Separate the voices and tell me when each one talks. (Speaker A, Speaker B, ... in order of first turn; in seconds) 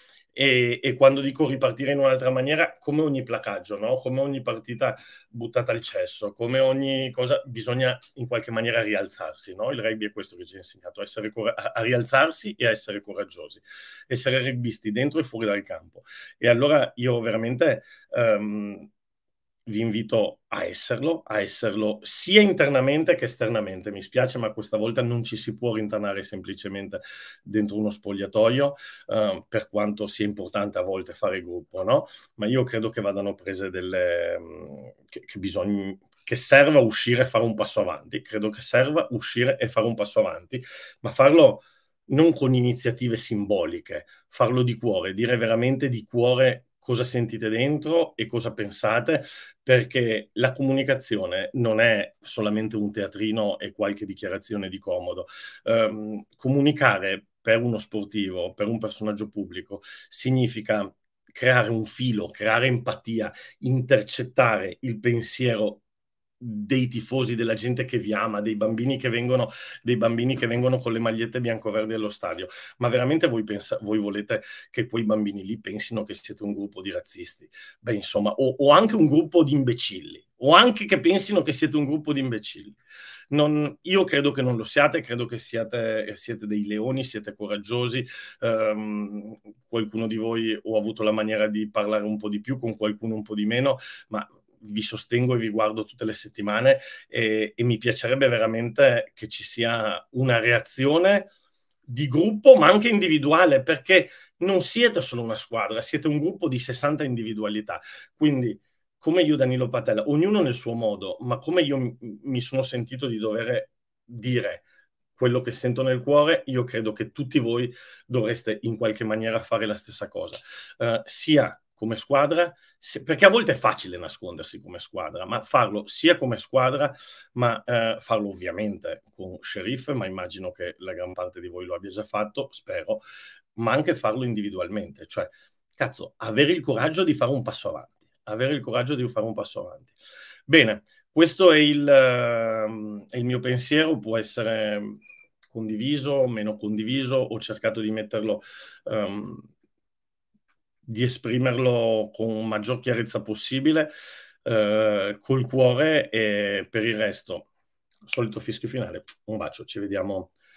Speaker A: 0.3-18.9, 19.7-65.8, 66.4-82.8, 83.3-101.3, 101.9-114.7, 115.2-133.0, 133.6-139.9, 140.5-149.5, 150.9-153.9, 154.4-157.5, 158.1-160.3